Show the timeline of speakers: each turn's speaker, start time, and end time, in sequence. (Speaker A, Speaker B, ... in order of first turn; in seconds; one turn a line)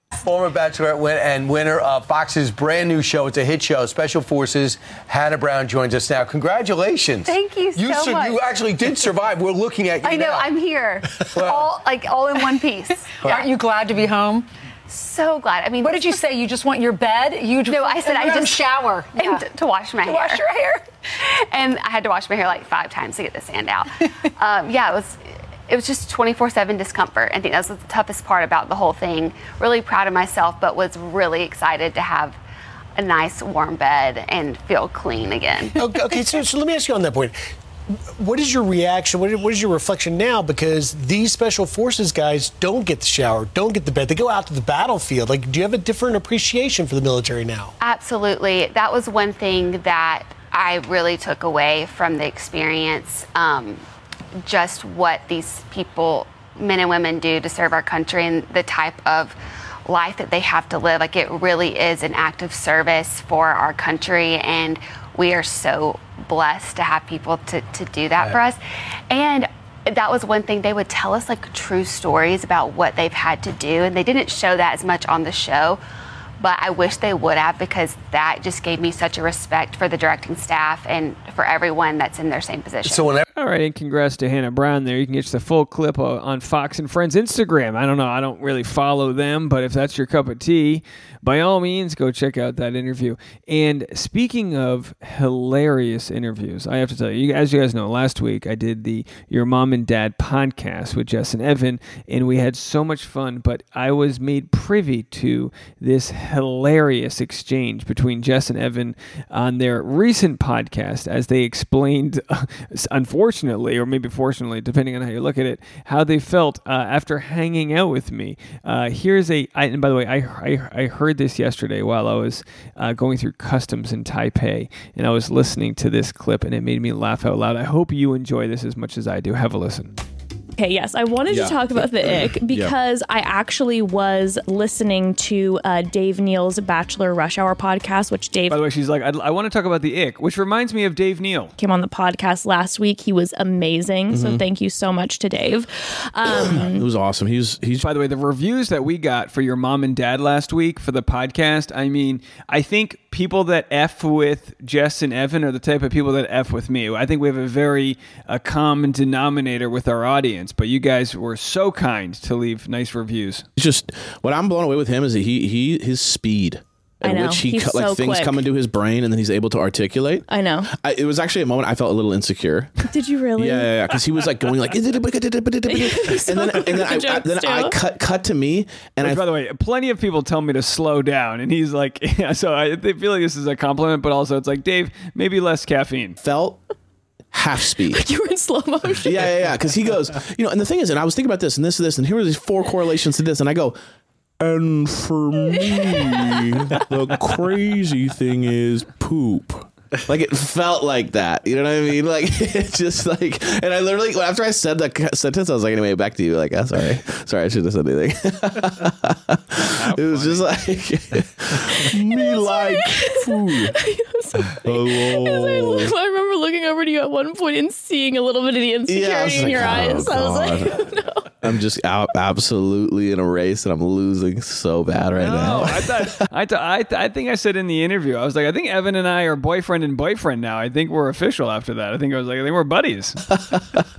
Speaker A: 0.2-10.5
Speaker B: 7.3-8.4
Speaker C: 10.0-14.4
Speaker B: 10.1-13.4
Speaker A: 11.3-11.7
Speaker B: 14.9-16.3
Speaker C: 15.8-19.5
Speaker B: 17.6-20.6
Speaker C: 20.0-20.8
Speaker B: 21.2-32.4
Speaker B: 33.0-35.8
Speaker D: 35.8-37.3
Speaker D: 38.1-47.7
Speaker B: 47.8-53.8
Speaker B: 54.4-68.6
Speaker B: 69.1-75.8
Speaker B: 76.4-83.1
Speaker A: 82.8-83.2
Speaker E: 83.3-129.9
Speaker F: 130.6-138.6
Speaker G: 131.3-132.7
Speaker E: 138.5-141.5
Speaker F: 141.6-146.8
Speaker G: 144.1-144.4
Speaker G: 146.3-147.8
Speaker E: 147.8-163.4
Speaker G: 163.6-179.2
Speaker F: 167.0-168.4
Speaker F: 170.3-170.7
Speaker F: 172.9-174.0
Speaker F: 175.7-177.7
Speaker E: 179.0-186.2
Speaker G: 186.2-186.6
Speaker G: 187.3-188.0
Speaker F: 187.9-189.5
Speaker G: 189.0-193.8
Speaker G: 194.4-213.8
Speaker F: 195.5-196.3
Speaker E: 209.7-210.5
Speaker F: 212.1-221.2
Speaker G: 214.5-215.9
Speaker G: 218.9-220.8
Speaker G: 221.4-226.2
Speaker E: 225.1-233.2